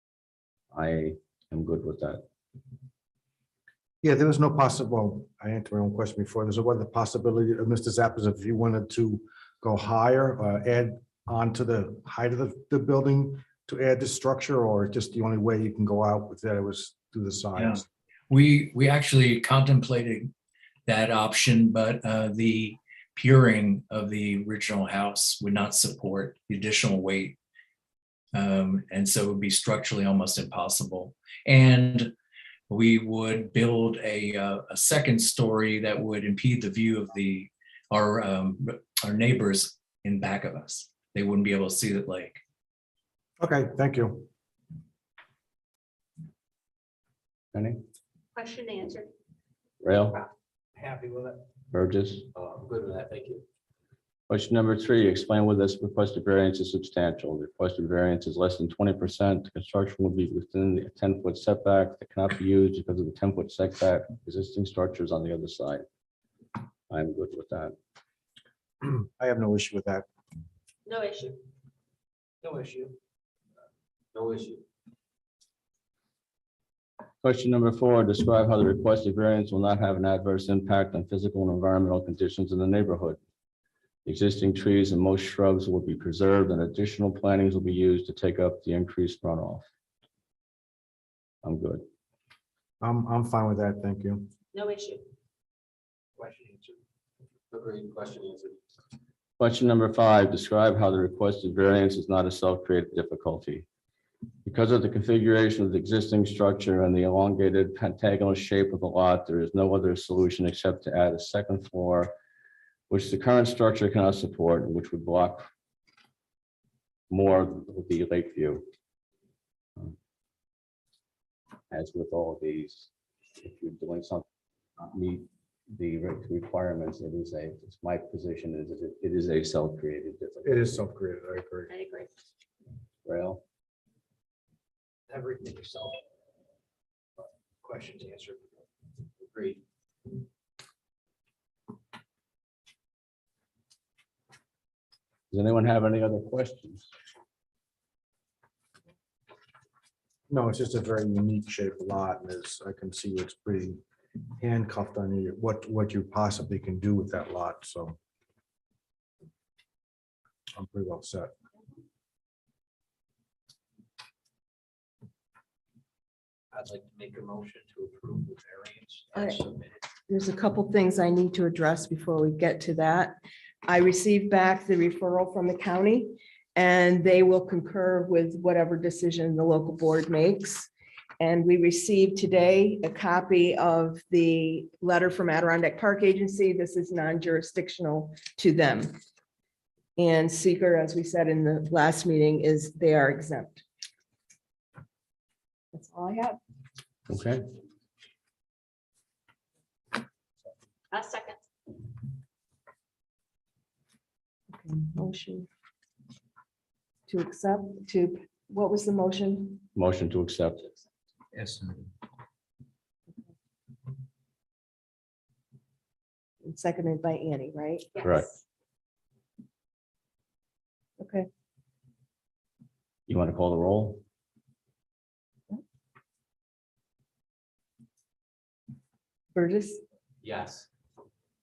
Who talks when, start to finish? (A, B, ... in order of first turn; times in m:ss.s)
0:00.7-0:02.2 A
0:04.0-0:17.8 B
0:17.6-0:20.3 C
0:20.8-0:27.4 C
0:28.3-0:32.1 C
0:32.7-0:42.4 C
0:43.4-0:44.3 B
0:47.5-0:47.8 A
0:48.3-0:49.1 D
0:49.8-0:50.2 A
0:50.8-0:51.4 E
0:51.7-0:52.3 A
0:52.3-0:53.4 E
0:54.3-1:05.8 A
1:06.9-1:07.7 A
1:08.8-1:10.1 B
1:10.8-1:11.4 D
1:12.4-1:13.0 E
1:14.1-1:14.6 E
1:17.2-1:23.2 A
1:24.0-1:29.6 A
1:31.4-1:31.8 A
1:32.8-1:34.3 B
1:34.5-1:35.0 D
1:36.2-1:36.8 E
1:37.5-1:38.6 E
1:39.4-1:43.6 A
1:44.4-1:52.1 A
1:52.9-1:55.5 A
1:57.1-1:58.6 A
2:01.7-2:02.9 A
2:03.4-2:04.2 A
2:04.8-2:10.8 A
2:10.4-2:11.7 B
2:11.7-2:12.1 D
2:13.0-2:13.4 A
2:15.1-2:16.0 E
2:17.2-2:19.6 E
2:25.3-2:26.9 A
2:30.3-2:33.8 B
2:34.4-2:38.0 B
2:40.5-2:41.3 B
2:46.5-2:49.8 E
2:50.1-3:09.0 F
3:10.0-3:13.6 F
3:15.7-3:16.4 F
3:17.1-3:17.4 A
3:20.9-3:21.4 D
3:24.5-3:25.5 F
3:27.1-3:29.6 F
3:29.7-3:30.7 A
3:36.4-3:38.0 F
3:37.9-3:38.2 D
3:38.0-3:38.3 A
3:41.0-3:41.3 F
3:43.1-3:44.0 A
3:49.3-3:49.8 F
3:50.2-3:50.7 E